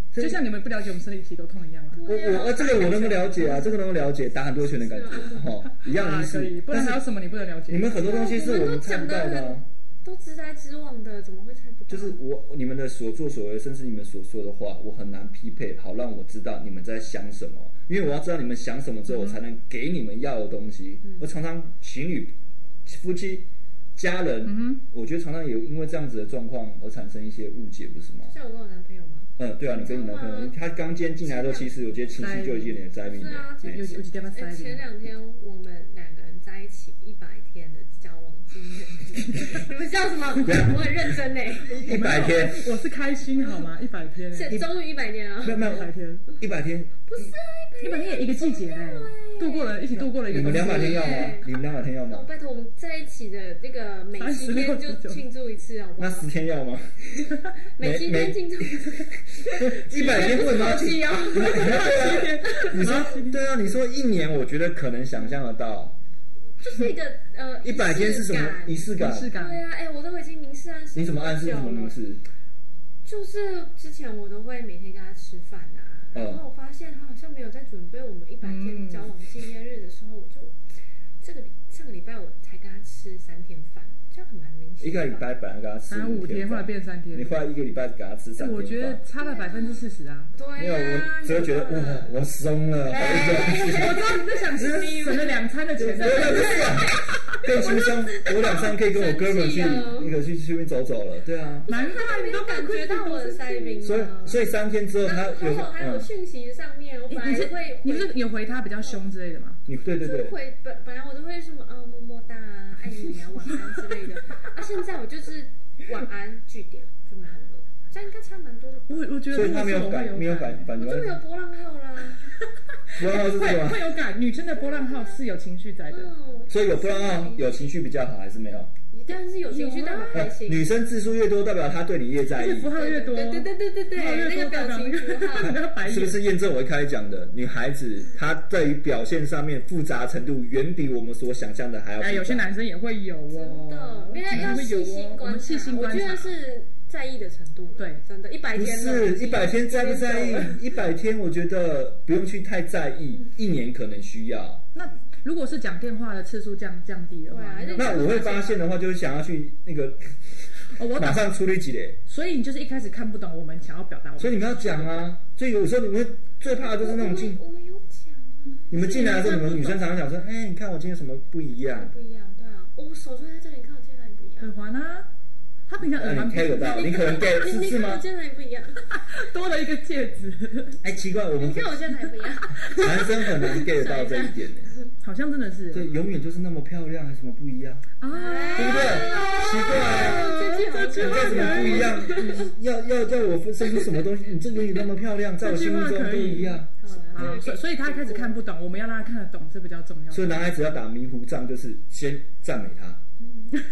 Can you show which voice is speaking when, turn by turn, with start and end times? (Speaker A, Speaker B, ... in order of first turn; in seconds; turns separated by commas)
Speaker A: 0.1-0.4, Speaker B: 0.2-2.0, Speaker C: 1.9-3.6, Speaker A: 2.0-7.0, Speaker B: 2.8-3.8, Speaker C: 4.5-5.4, Speaker B: 5.4-8.0, Speaker A: 7.7-9.6, Speaker C: 8.0-12.2, Speaker A: 11.9-22.3, Speaker B: 19.1-19.4, Speaker A: 22.8-28.3, Speaker B: 24.4-24.8, Speaker C: 28.3-30.6, Speaker A: 29.4-33.9, Speaker C: 31.2-31.8, Speaker B: 32.1-32.9, Speaker C: 33.0-41.8, Speaker B: 33.6-34.9, Speaker A: 40.4-41.1, Speaker A: 41.6-42.7, Speaker B: 41.7-44.6, Speaker C: 44.3-45.9, Speaker A: 44.5-44.8, Speaker B: 45.5-46.3, Speaker A: 45.5-47.3, Speaker C: 47.1-56.3, Speaker B: 47.8-51.3, Speaker A: 50.2-52.3, Speaker B: 54.2-55.2, Speaker A: 56.0-57.0, Speaker C: 57.1-62.9, Speaker A: 57.8-66.0, Speaker B: 61.4-63.4, Speaker C: 66.6-72.0, Speaker B: 66.6-66.9, Speaker A: 67.6-69.3, Speaker B: 68.9-69.6, Speaker A: 70.9-72.2, Speaker C: 73.0-80.5, Speaker A: 76.1-76.4, Speaker B: 78.4-79.1, Speaker C: 81.2-85.3, Speaker A: 84.8-89.0, Speaker B: 85.9-87.5, Speaker B: 88.4-90.3, Speaker C: 89.2-92.1, Speaker A: 90.6-101.7, Speaker C: 92.9-95.3, Speaker B: 92.9-97.3, Speaker C: 96.0-100.2, Speaker B: 101.7-104.4, Speaker C: 101.7-104.4, Speaker A: 103.8-106.1, Speaker C: 105.0-108.3, Speaker B: 107.1-109.6, Speaker A: 109.7-110.4, Speaker C: 110.0-119.2, Speaker B: 118.9-120.7, Speaker A: 119.3-121.2, Speaker C: 120.8-122.3, Speaker B: 122.9-126.1, Speaker A: 123.0-123.9, Speaker C: 124.5-125.2, Speaker C: 125.9-127.7, Speaker A: 126.5-128.7, Speaker C: 128.9-130.7, Speaker B: 129.3-130.2, Speaker A: 130.1-132.8, Speaker B: 132.2-136.3, Speaker C: 132.7-135.6, Speaker A: 135.4-142.5, Speaker B: 142.0-146.3, Speaker C: 143.3-150.8, Speaker B: 147.8-148.0, Speaker A: 148.5-154.6, Speaker B: 154.7-158.3, Speaker C: 157.3-158.7, Speaker A: 157.8-162.0, Speaker B: 160.6-161.3, Speaker B: 162.0-165.1, Speaker A: 164.2-167.4, Speaker C: 166.5-169.6, Speaker A: 168.7-171.9, Speaker B: 169.1-169.8, Speaker C: 171.7-174.5, Speaker B: 174.4-175.1, Speaker B: 175.7-176.8, Speaker A: 175.8-178.1, Speaker C: 176.6-178.9, Speaker B: 178.8-180.8, Speaker A: 180.8-181.8, Speaker C: 181.3-182.8, Speaker B: 182.6-183.4, Speaker A: 182.7-184.7, Speaker C: 183.5-184.9, Speaker B: 185.0-185.9, Speaker A: 185.7-187.8, Speaker B: 188.0-192.4, Speaker C: 188.1-192.5, Speaker A: 188.6-190.4, Speaker A: 190.9-196.7, Speaker B: 195.4-200.8, Speaker C: 196.8-198.4, Speaker A: 200.1-203.0, Speaker C: 203.2-203.5